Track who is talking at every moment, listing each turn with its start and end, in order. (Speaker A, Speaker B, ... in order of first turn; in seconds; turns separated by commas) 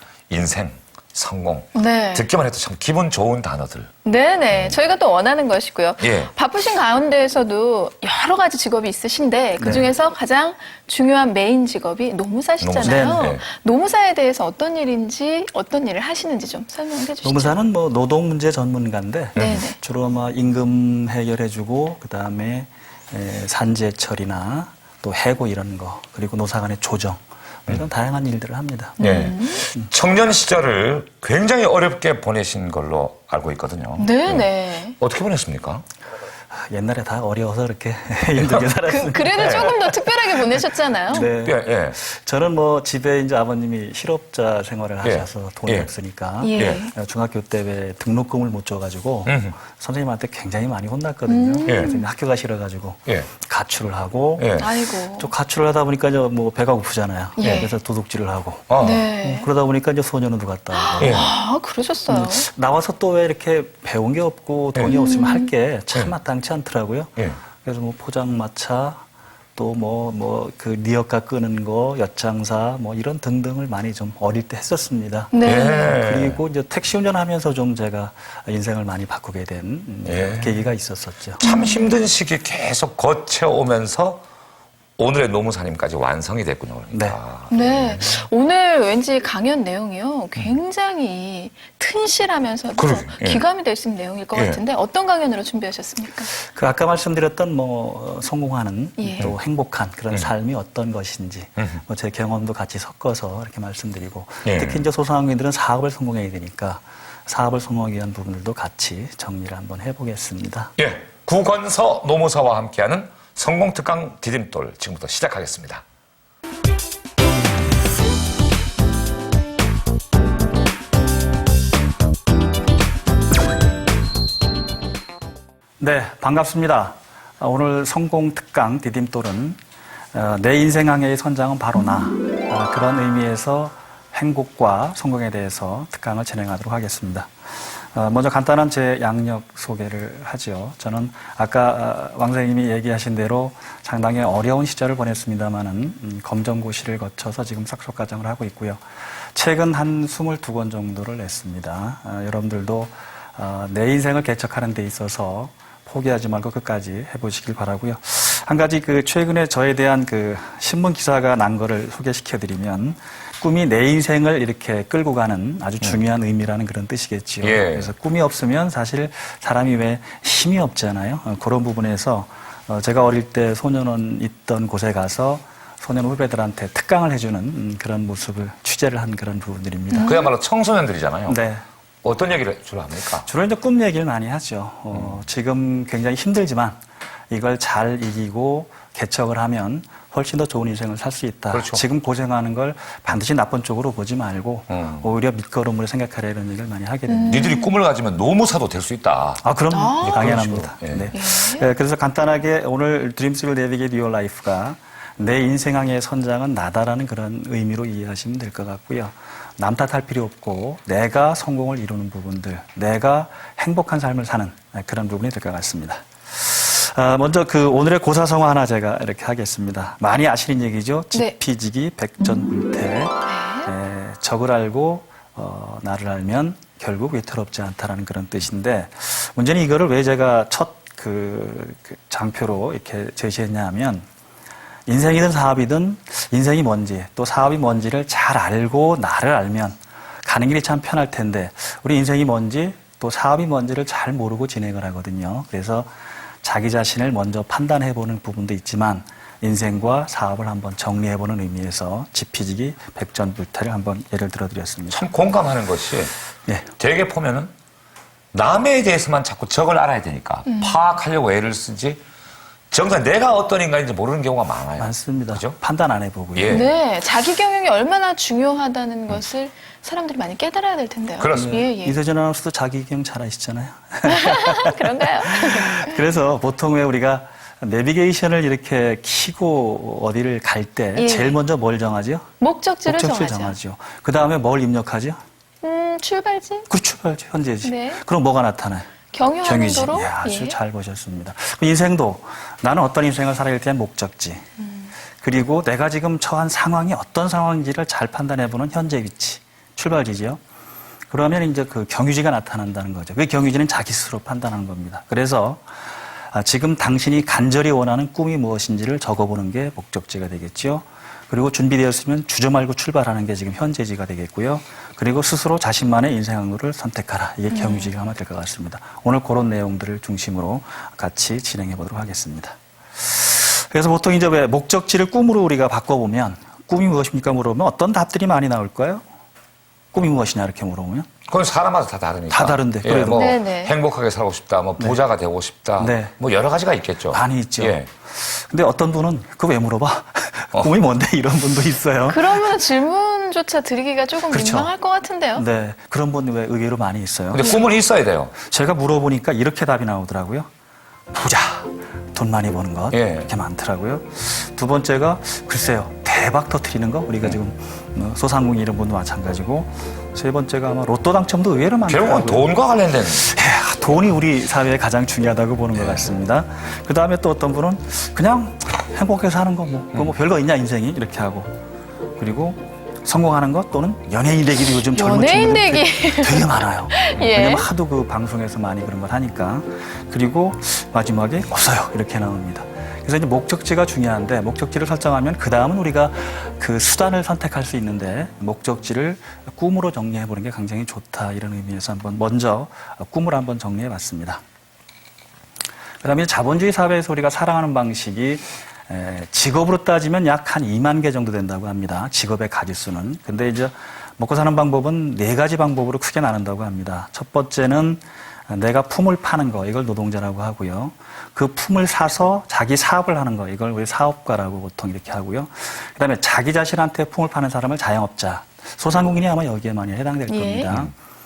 Speaker A: 0.3-3.9, Speaker B: 1.7-2.3, Speaker B: 4.0-17.6, Speaker A: 4.5-4.8, Speaker A: 6.0-6.3, Speaker C: 9.6-9.9, Speaker A: 12.6-13.4, Speaker C: 12.8-13.3, Speaker C: 17.2-29.0, Speaker A: 19.3-19.6, Speaker B: 19.4-19.8, Speaker B: 29.0-29.7, Speaker A: 29.0-35.8, Speaker B: 34.0-35.0, Speaker C: 36.5-40.4, Speaker A: 38.4-38.7, Speaker B: 38.9-41.3, Speaker A: 39.3-39.8, Speaker C: 41.1-61.3, Speaker A: 41.1-42.0, Speaker A: 45.0-45.9, Speaker B: 46.4-46.9, Speaker A: 46.5-46.8, Speaker A: 49.2-49.6, Speaker B: 51.3-52.0, Speaker A: 51.6-51.9, Speaker A: 54.4-54.7, Speaker B: 54.6-55.3, Speaker B: 57.4-57.7, Speaker A: 57.4-57.7, Speaker A: 58.7-59.0, Speaker B: 58.8-59.5, Speaker B: 60.7-62.5, Speaker A: 61.0-61.3, Speaker C: 62.1-69.0, Speaker B: 64.9-65.5, Speaker C: 69.5-81.4, Speaker B: 75.3-75.9, Speaker A: 75.5-76.4, Speaker A: 80.0-80.7, Speaker A: 81.4-84.2, Speaker B: 81.4-81.9, Speaker A: 85.0-88.0, Speaker C: 86.9-87.2, Speaker B: 87.5-96.3, Speaker A: 92.8-93.4, Speaker A: 94.3-94.6, Speaker C: 96.4-110.7, Speaker B: 99.0-99.3, Speaker A: 104.4-104.9, Speaker A: 110.8-115.8, Speaker C: 125.8-129.6, Speaker C: 130.1-180.2, Speaker A: 167.4-167.9, Speaker B: 179.9-180.3, Speaker A: 180.0-181.4, Speaker C: 181.3-181.6, Speaker A: 182.0-183.3, Speaker C: 183.2-186.8, Speaker A: 184.9-185.2, Speaker C: 187.3-197.5, Speaker A: 191.5-191.8, Speaker A: 194.7-195.1, Speaker B: 197.1-197.7, Speaker A: 197.3-199.4, Speaker C: 199.4-234.1, Speaker B: 199.7-200.4, Speaker A: 200.0-201.1, Speaker B: 201.1-201.7, Speaker B: 223.2-223.7, Speaker C: 234.9-245.9, Speaker C: 246.4-255.0, Speaker A: 254.9-256.1, Speaker A: 256.8-257.5, Speaker A: 258.3-262.0, Speaker B: 260.5-260.8, Speaker A: 262.7-265.6, Speaker C: 264.8-266.7, Speaker A: 266.3-266.7, Speaker B: 266.5-271.9, Speaker A: 271.2-271.6, Speaker C: 271.3-282.3, Speaker B: 274.1-276.0, Speaker B: 280.9-281.4, Speaker B: 282.4-283.6, Speaker C: 282.8-285.2, Speaker B: 285.6-286.7, Speaker C: 286.7-294.4, Speaker B: 287.6-288.0, Speaker B: 289.1-290.6, Speaker C: 295.2-300.4, Speaker C: 301.1-305.6, Speaker C: 306.3-329.0, Speaker B: 317.5-317.9, Speaker C: 329.9-331.1, Speaker A: 331.3-337.9, Speaker C: 332.3-333.3, Speaker B: 333.1-333.7, Speaker C: 335.8-336.1, Speaker C: 337.1-342.6, Speaker B: 342.1-345.4, Speaker C: 344.3-344.7, Speaker C: 345.3-347.5, Speaker A: 347.3-348.3, Speaker C: 348.4-350.5, Speaker C: 351.1-362.5, Speaker A: 352.9-353.3, Speaker A: 361.9-363.3, Speaker C: 363.1-371.5, Speaker C: 372.2-394.4, Speaker B: 374.9-377.7, Speaker C: 396.0-420.9, Speaker B: 420.3-420.7